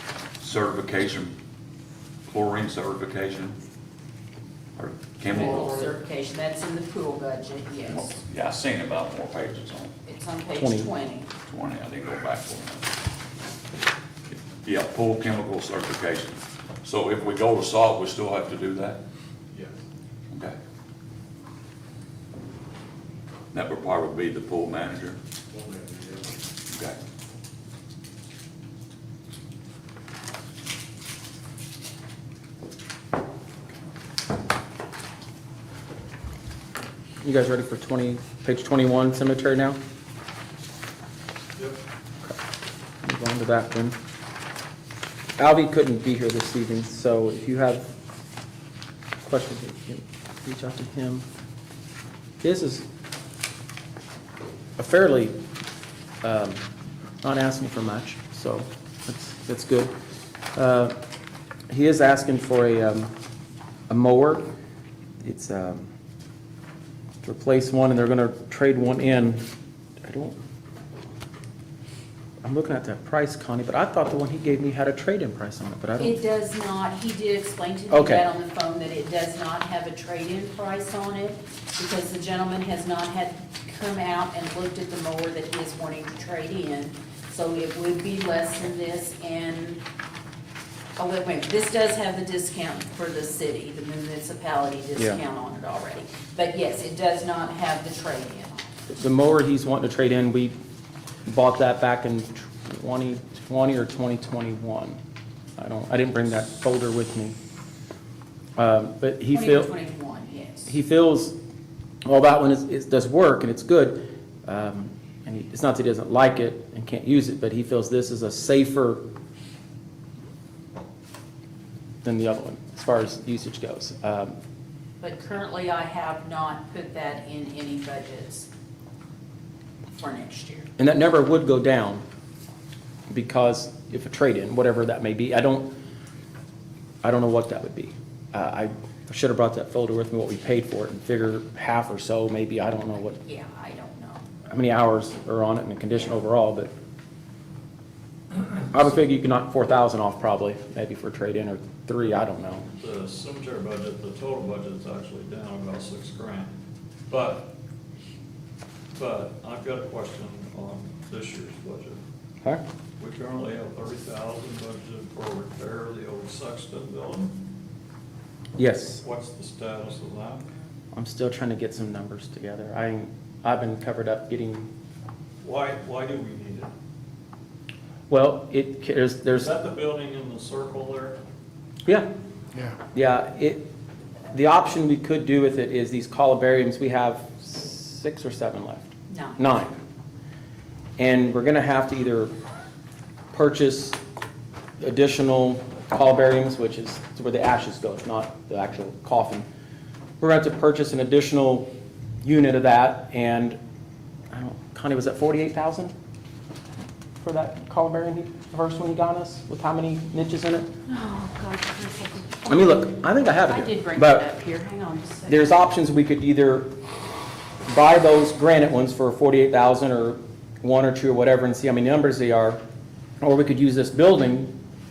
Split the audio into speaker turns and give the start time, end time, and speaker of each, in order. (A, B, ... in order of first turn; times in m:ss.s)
0:00.4-0:01.4 A
0:02.3-0:03.6 A
0:04.8-0:05.9 A
0:05.3-0:08.2 B
0:07.9-0:09.9 A
0:10.0-0:11.3 B
0:10.6-0:10.9 C
0:11.4-0:12.9 A
0:14.3-0:19.0 A
0:20.3-0:20.6 A
0:23.5-0:25.2 A
0:26.7-0:27.0 A
0:37.2-0:39.8 C
0:43.0-0:44.0 C
0:45.4-0:47.9 C
0:49.2-0:51.3 C
0:52.4-0:52.9 C
0:54.8-0:55.4 C
0:56.2-0:56.7 C
0:57.2-0:59.9 C
1:00.6-1:01.0 C
1:01.7-1:03.1 C
1:03.9-1:04.5 C
1:05.2-1:05.9 C
1:07.2-1:09.5 C
1:10.0-1:10.4 C
1:12.4-1:16.2 C
1:16.0-1:29.8 B
1:17.9-1:18.3 C
1:31.0-1:38.7 B
1:35.0-1:35.2 C
1:38.9-1:40.6 C
1:41.3-1:45.0 C
1:45.6-1:47.4 C
1:48.6-1:49.7 C
1:49.3-1:50.8 B
1:50.7-1:51.4 C
1:52.0-1:59.0 C
2:02.0-2:04.4 C
2:05.0-2:08.5 B
2:09.9-2:10.7 B
2:10.8-2:12.0 C
2:13.1-2:15.7 C
2:17.0-2:23.2 C
2:23.2-2:24.3 B
2:24.5-2:26.7 C
2:28.7-2:32.7 C
2:32.7-2:36.5 D
2:37.1-2:37.5 D
2:38.9-2:42.0 D
2:43.0-2:47.4 D
2:48.6-2:49.0 C
2:49.0-2:50.5 D
2:50.9-2:54.7 C
2:55.4-2:56.7 D
2:58.1-2:59.5 C
2:59.4-3:01.2 D
3:02.9-3:03.7 C
3:04.3-3:08.8 C
3:09.1-3:09.5 B
3:09.4-3:09.8 C
3:11.0-3:12.3 C
3:13.3-3:14.0 C
3:14.8-3:19.5 C
3:20.2-3:21.7 C
3:22.2-3:23.6 C
3:24.3-3:25.9 C
3:27.2-3:30.7 C
3:30.9-3:32.8 B
3:32.5-3:34.3 C
3:33.5-3:35.5 B
3:35.3-3:36.7 C
3:37.7-3:42.6 C
3:43.2-3:44.6 C